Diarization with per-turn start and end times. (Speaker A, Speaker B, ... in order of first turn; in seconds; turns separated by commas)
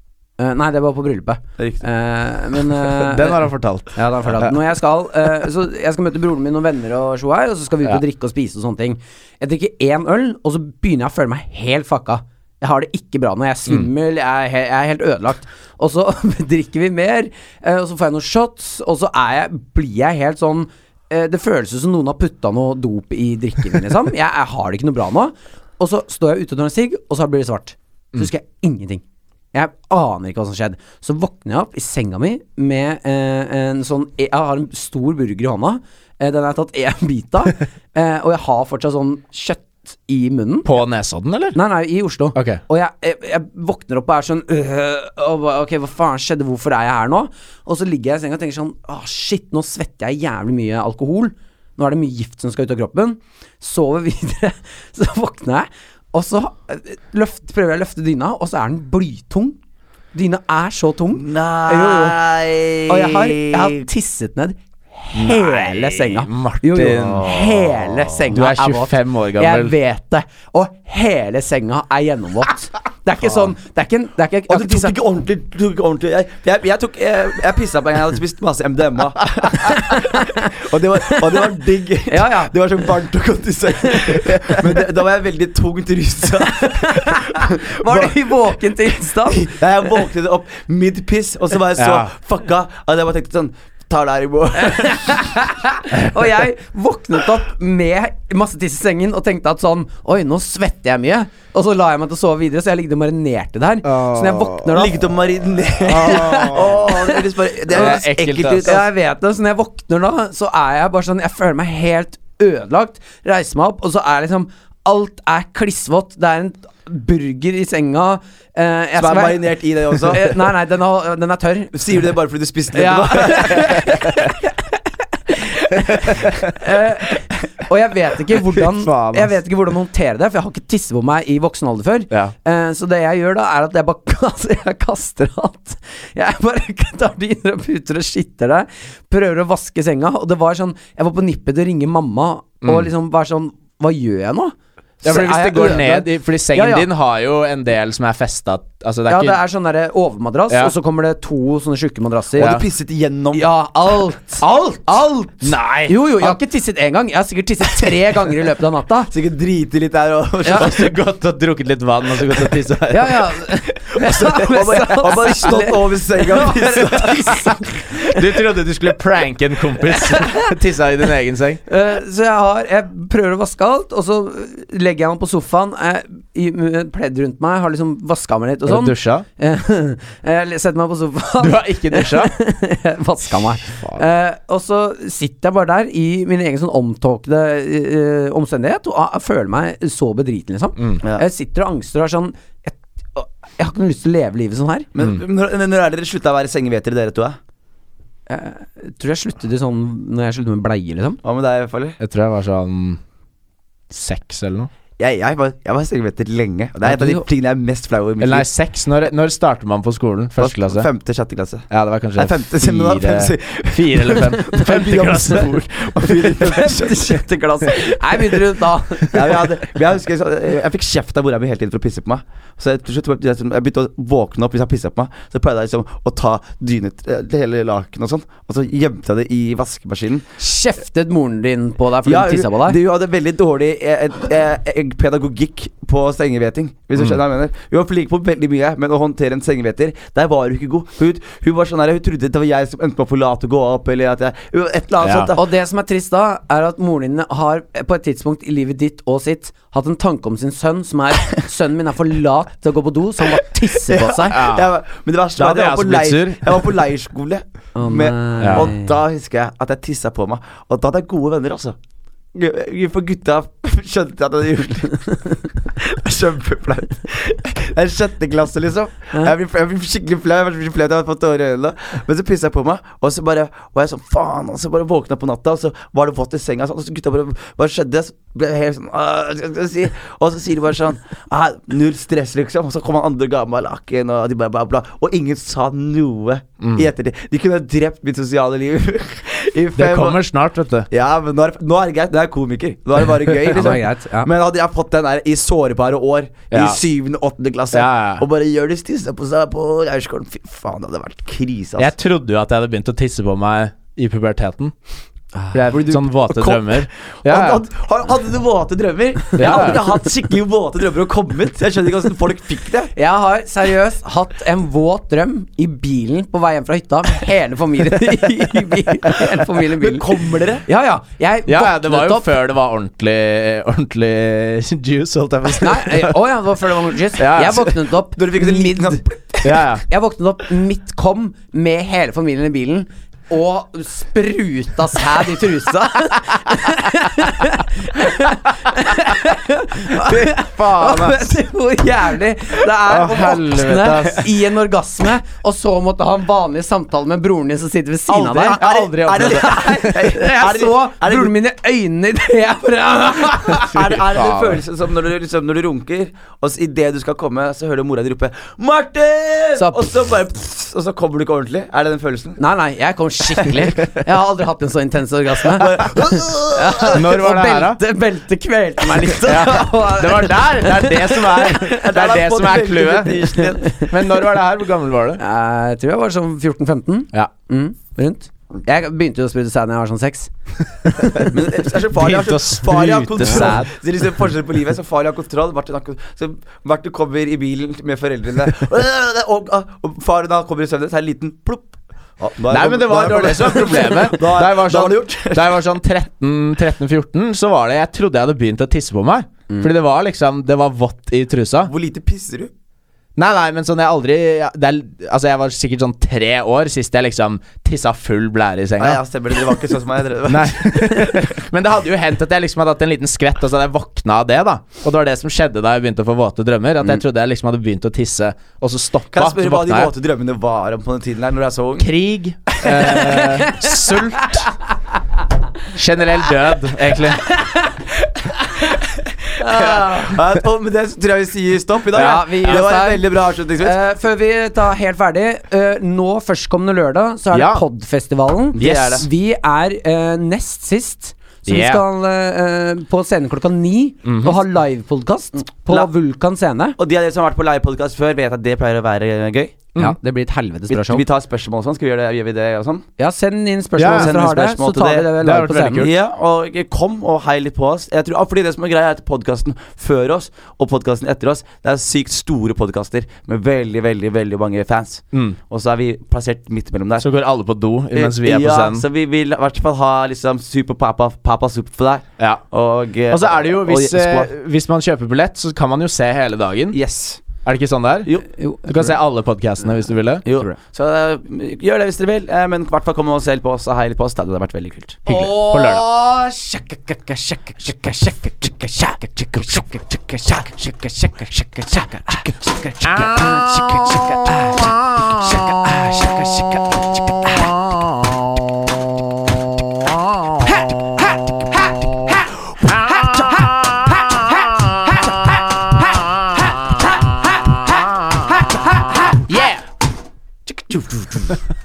Speaker A: 0.4-29.0, Speaker B: 1.6-1.8, Speaker C: 3.0-4.6, Speaker A: 29.5-40.7, Speaker C: 40.6-41.5, Speaker A: 41.5-59.6, Speaker C: 42.3-42.6, Speaker A: 60.1-62.2, Speaker B: 61.1-63.8, Speaker A: 62.9-75.0, Speaker C: 65.1-67.3, Speaker B: 66.8-68.0, Speaker C: 68.3-69.8, Speaker B: 74.5-88.3, Speaker A: 79.7-80.5, Speaker A: 81.0-81.4, Speaker A: 82.1-82.5, Speaker A: 83.8-84.1, Speaker A: 86.5-89.5, Speaker B: 89.2-95.4, Speaker C: 91.8-92.1, Speaker A: 94.6-105.1, Speaker C: 103.8-104.8, Speaker B: 104.7-108.8, Speaker C: 105.9-106.8, Speaker A: 105.9-108.0, Speaker C: 107.7-108.7, Speaker A: 108.6-121.8, Speaker B: 119.0-120.4, Speaker B: 121.7-124.0, Speaker A: 122.7-146.9, Speaker C: 123.9-124.2, Speaker C: 125.9-126.5, Speaker C: 128.6-129.3, Speaker C: 142.6-142.9, Speaker C: 145.0-149.4, Speaker A: 149.1-152.6, Speaker B: 152.4-153.5, Speaker C: 152.4-152.6, Speaker A: 153.3-155.3, Speaker C: 155.3-156.4, Speaker A: 155.9-159.1, Speaker B: 159.1-160.9, Speaker C: 160.5-163.4, Speaker A: 162.9-168.1, Speaker B: 163.9-167.5, Speaker C: 168.0-171.6, Speaker A: 169.9-170.5, Speaker A: 171.7-194.9, Speaker C: 178.7-179.2, Speaker C: 181.4-182.3, Speaker B: 194.9-197.4, Speaker A: 198.3-201.2, Speaker B: 201.2-202.0, Speaker C: 202.0-203.0, Speaker C: 203.9-204.7, Speaker B: 205.0-208.4, Speaker C: 206.9-207.2, Speaker C: 208.2-210.9, Speaker B: 210.4-230.2, Speaker C: 211.7-216.7, Speaker A: 216.4-219.4, Speaker A: 230.4-232.8, Speaker B: 232.1-245.5, Speaker C: 245.0-245.3, Speaker A: 245.3-254.4, Speaker B: 253.9-261.8, Speaker C: 254.3-254.7, Speaker C: 255.4-256.7, Speaker A: 257.7-258.9, Speaker C: 258.4-258.7, Speaker B: 262.3-290.2, Speaker C: 286.6-286.9, Speaker C: 289.8-290.9, Speaker B: 290.9-301.9, Speaker A: 293.4-294.3, Speaker C: 296.5-296.8, Speaker C: 297.7-298.3, Speaker C: 301.8-304.7, Speaker C: 305.5-307.6, Speaker B: 305.6-312.9, Speaker C: 309.4-309.8, Speaker A: 309.4-309.8, Speaker A: 312.9-322.3, Speaker B: 319.8-320.6, Speaker C: 321.5-326.2, Speaker A: 325.5-329.0, Speaker C: 327.2-327.7, Speaker B: 328.1-329.6, Speaker C: 329.4-329.8, Speaker A: 329.9-348.6, Speaker C: 339.9-341.3, Speaker C: 342.9-344.3, Speaker C: 348.1-349.9, Speaker B: 348.2-351.3, Speaker A: 349.2-354.0, Speaker B: 353.5-362.4, Speaker C: 354.1-354.6, Speaker A: 359.6-359.9, Speaker A: 362.4-371.8, Speaker B: 365.5-367.0, Speaker C: 366.9-367.8, Speaker C: 369.2-375.2, Speaker B: 371.6-373.8, Speaker A: 373.6-373.9, Speaker A: 375.2-380.3, Speaker A: 380.9-381.3, Speaker C: 381.0-381.3, Speaker B: 381.1-395.6, Speaker C: 381.9-383.7, Speaker C: 392.5-401.7, Speaker B: 401.7-402.5, Speaker C: 403.2-409.6, Speaker B: 408.8-411.4, Speaker C: 410.3-419.9, Speaker B: 419.1-421.9, Speaker C: 421.8-424.5, Speaker B: 422.6-423.1, Speaker A: 422.9-424.4, Speaker C: 425.7-427.3, Speaker A: 427.2-427.7, Speaker B: 428.8-433.8, Speaker A: 429.4-430.2, Speaker C: 431.9-432.6, Speaker A: 431.9-433.1, Speaker A: 433.6-446.8, Speaker C: 437.3-437.6, Speaker B: 438.6-439.0, Speaker C: 438.6-439.1, Speaker C: 441.5-441.8, Speaker C: 444.1-444.3, Speaker B: 446.8-449.7, Speaker A: 449.8-451.1, Speaker B: 450.8-452.8, Speaker A: 453.0-455.9, Speaker C: 453.8-454.1, Speaker B: 453.8-455.1, Speaker C: 455.2-455.9, Speaker B: 455.7-467.1, Speaker C: 467.0-468.8, Speaker B: 467.9-474.3, Speaker C: 473.1-476.8, Speaker B: 476.7-477.2, Speaker C: 477.4-478.1, Speaker B: 478.1-478.9, Speaker A: 478.4-478.6, Speaker C: 478.6-480.5, Speaker B: 480.3-485.1, Speaker C: 485.1-485.8, Speaker A: 485.1-497.5, Speaker C: 492.9-496.1, Speaker C: 497.4-498.6, Speaker C: 499.6-509.6, Speaker A: 502.9-505.2, Speaker A: 506.8-507.6, Speaker A: 508.3-509.1, Speaker B: 510.5-511.4